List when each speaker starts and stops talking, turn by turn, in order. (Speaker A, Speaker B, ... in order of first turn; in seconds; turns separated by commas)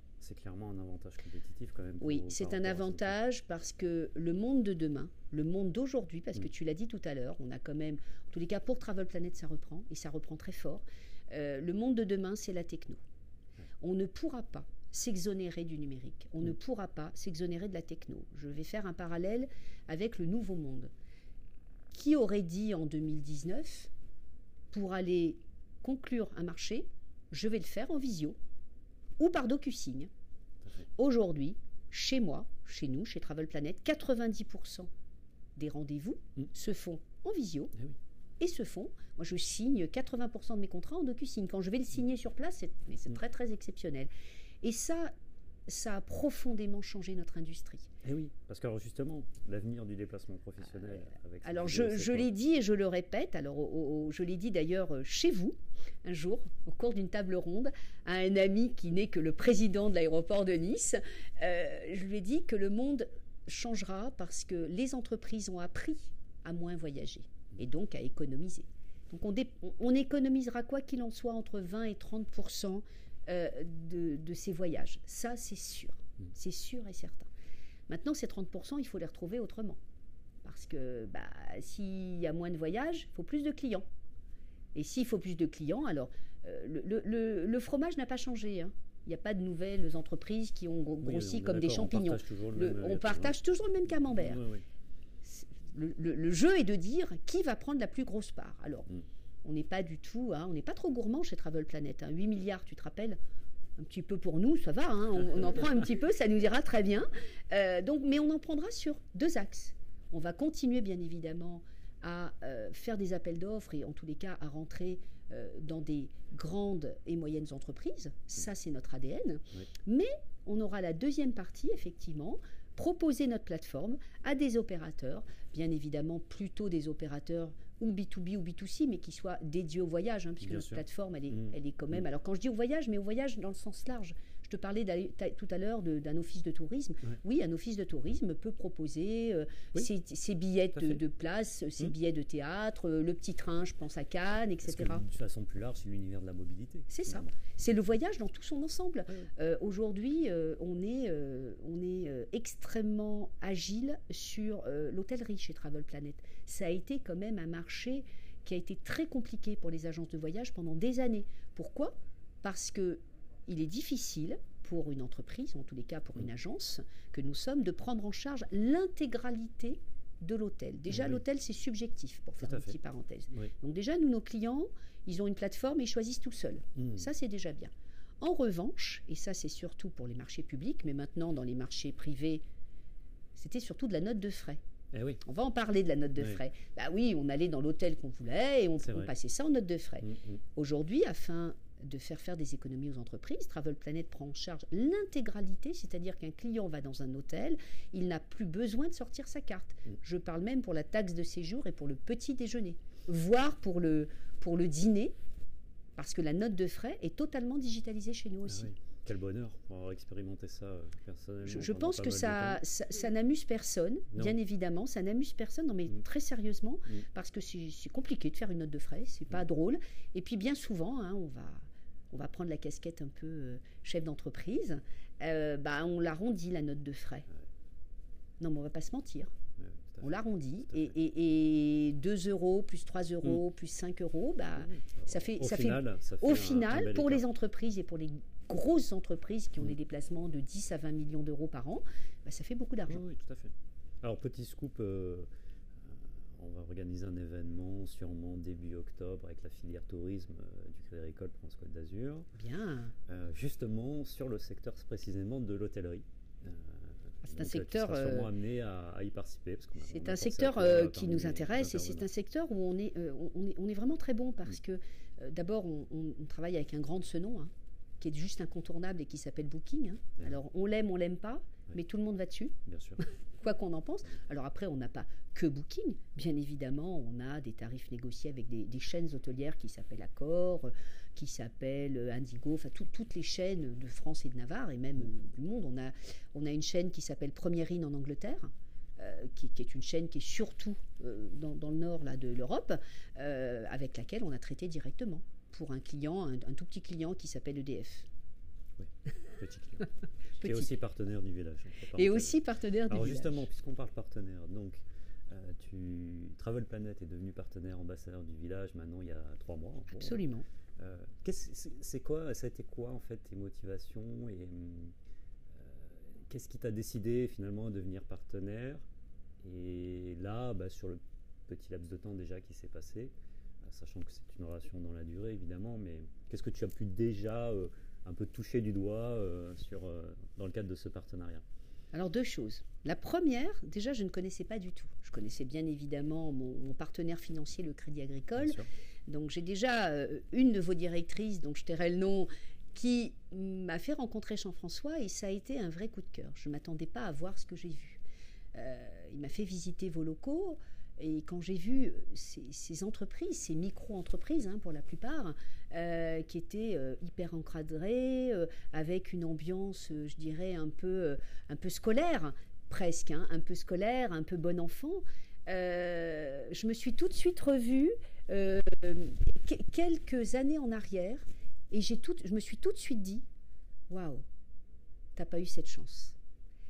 Speaker A: 0.2-3.1, Speaker B: 2.0-13.0, Speaker B: 13.8-20.9, Speaker B: 21.9-23.9, Speaker B: 24.7-28.4, Speaker B: 29.2-30.1, Speaker B: 30.9-34.9, Speaker B: 35.6-37.8, Speaker B: 38.4-44.1, Speaker B: 44.6-45.1, Speaker B: 45.7-47.9, Speaker A: 48.0-52.3, Speaker B: 51.4-77.3, Speaker B: 77.9-79.8, Speaker B: 80.4-83.8, Speaker B: 84.7-94.4, Speaker A: 91.0-93.3, Speaker A: 94.1-94.7, Speaker B: 95.2-98.9, Speaker B: 99.4-103.2, Speaker B: 103.8-145.0, Speaker A: 130.4-130.8, Speaker A: 144.6-147.3, Speaker B: 146.9-182.4, Speaker A: 170.9-171.2, Speaker A: 172.4-172.8, Speaker A: 176.8-177.1, Speaker B: 183.3-184.6, Speaker A: 184.9-185.2, Speaker B: 185.2-205.1, Speaker A: 190.0-190.4, Speaker B: 206.0-208.7, Speaker A: 208.5-212.6, Speaker B: 211.4-227.3, Speaker B: 228.4-229.3, Speaker A: 229.6-230.1, Speaker B: 230.0-243.0, Speaker A: 234.6-237.2, Speaker A: 242.9-245.3, Speaker A: 245.8-252.3, Speaker B: 252.4-252.9, Speaker A: 253.1-262.1, Speaker B: 257.3-258.3, Speaker B: 259.9-298.1, Speaker A: 272.7-273.0, Speaker A: 298.8-299.9, Speaker A: 300.4-302.4, Speaker B: 300.4-300.7, Speaker B: 301.9-303.4, Speaker A: 302.9-310.2, Speaker B: 309.9-310.4, Speaker A: 310.8-314.9, Speaker A: 315.6-318.9, Speaker A: 319.4-323.1, Speaker A: 323.6-331.4, Speaker B: 331.9-348.0, Speaker A: 338.4-338.7, Speaker B: 348.5-373.2, Speaker B: 373.9-374.2, Speaker B: 375.1-376.2